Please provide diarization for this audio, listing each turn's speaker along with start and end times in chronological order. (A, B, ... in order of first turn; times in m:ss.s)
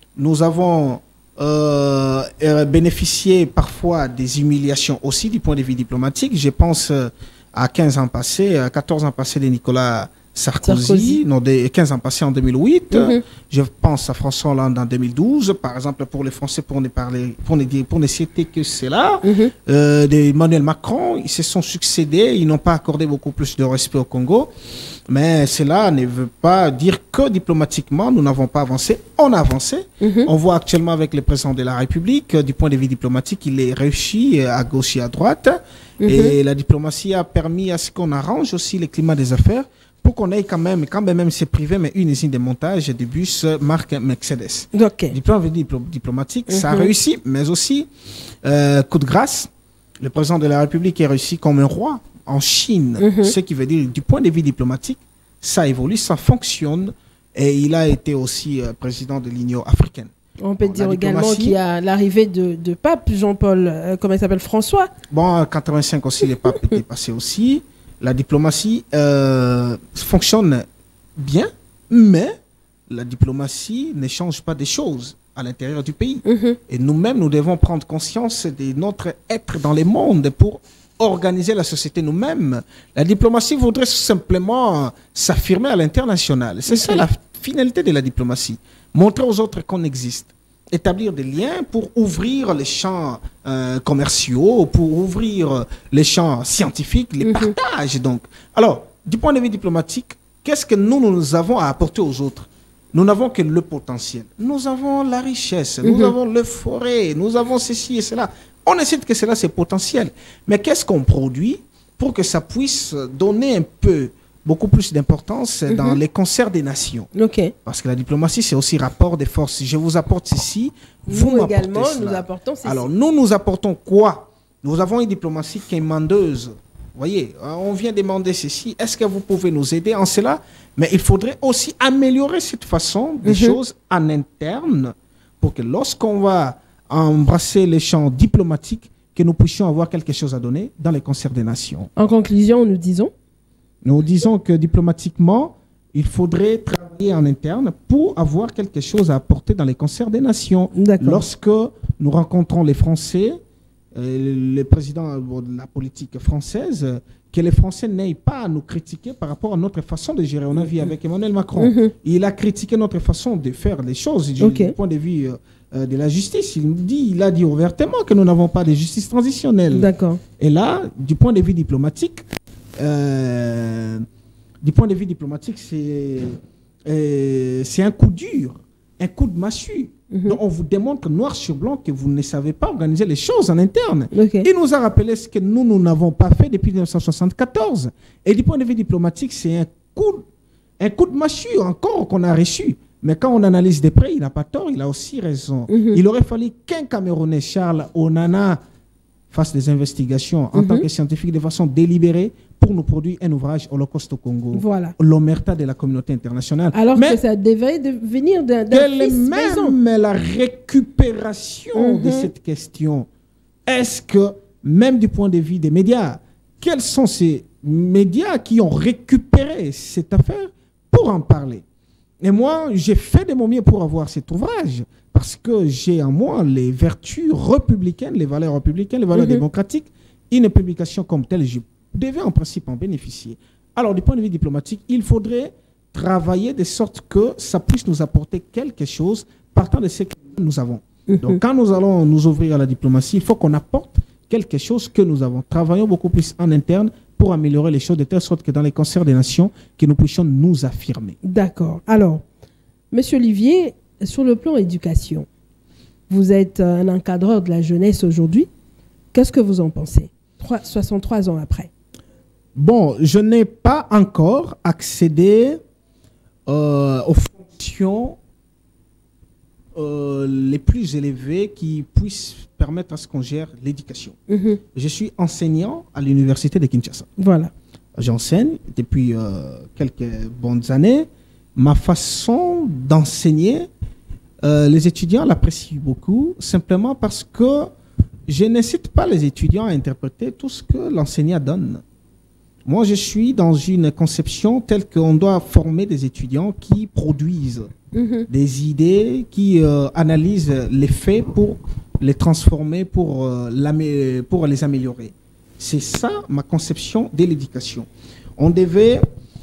0:00.2-0:24.5 A
0:10.6-0:11.2 B
0:12.9-0:13.2 B
0:19.2-0:19.5 B
0:25.1-0:47.9 A
0:30.0-0:30.3 B
0:36.0-0:36.3 B
0:44.7-0:45.2 B
0:46.5-0:46.9 B
0:48.4-0:49.5 A
0:50.0-1:01.6 A
0:53.0-0:53.3 B
1:00.4-1:04.9 B
1:05.1-1:10.7 A
1:11.2-1:12.4 A
1:12.9-1:57.1 A
1:16.3-1:16.6 B
1:26.7-1:27.0 B
1:37.2-1:37.5 B
1:45.8-1:46.1 B
1:55.7-1:56.0 B
1:57.2-1:57.5 B
1:57.6-2:21.9 A
2:01.1-2:02.9 B
2:13.2-2:13.6 B
2:22.0-2:23.1 B
2:23.8-2:33.4 A
2:30.8-2:31.3 B
2:33.9-2:52.2 A
2:41.6-2:41.9 B
2:44.4-2:44.8 B
2:49.7-2:50.2 B
2:52.8-2:54.1 A
2:54.6-3:10.2 A
3:00.1-3:00.4 B
3:04.1-3:04.5 B
3:10.8-3:18.6 A
3:15.7-3:16.0 B
3:19.3-3:27.2 A
3:20.6-3:20.9 B
3:24.5-3:25.0 B
3:26.7-3:29.8 B
3:28.7-3:33.1 A
3:31.8-3:32.3 B
3:33.7-3:41.6 A
3:42.2-4:11.2 A
3:49.1-3:49.4 B
4:01.1-4:01.4 B
4:11.2-4:12.2 B
4:12.9-4:15.3 B
4:16.1-4:18.5 B
4:19.1-4:21.7 B
4:22.6-4:25.6 A
4:26.5-4:28.2 A
4:29.8-4:34.2 A
4:34.3-4:34.6 B
4:34.7-4:37.1 A
4:37.2-4:37.5 B
4:38.0-4:43.7 A
4:44.4-4:47.7 A
4:48.3-4:51.8 A
4:52.7-4:57.7 A
4:57.9-4:58.3 B
4:58.3-5:09.0 A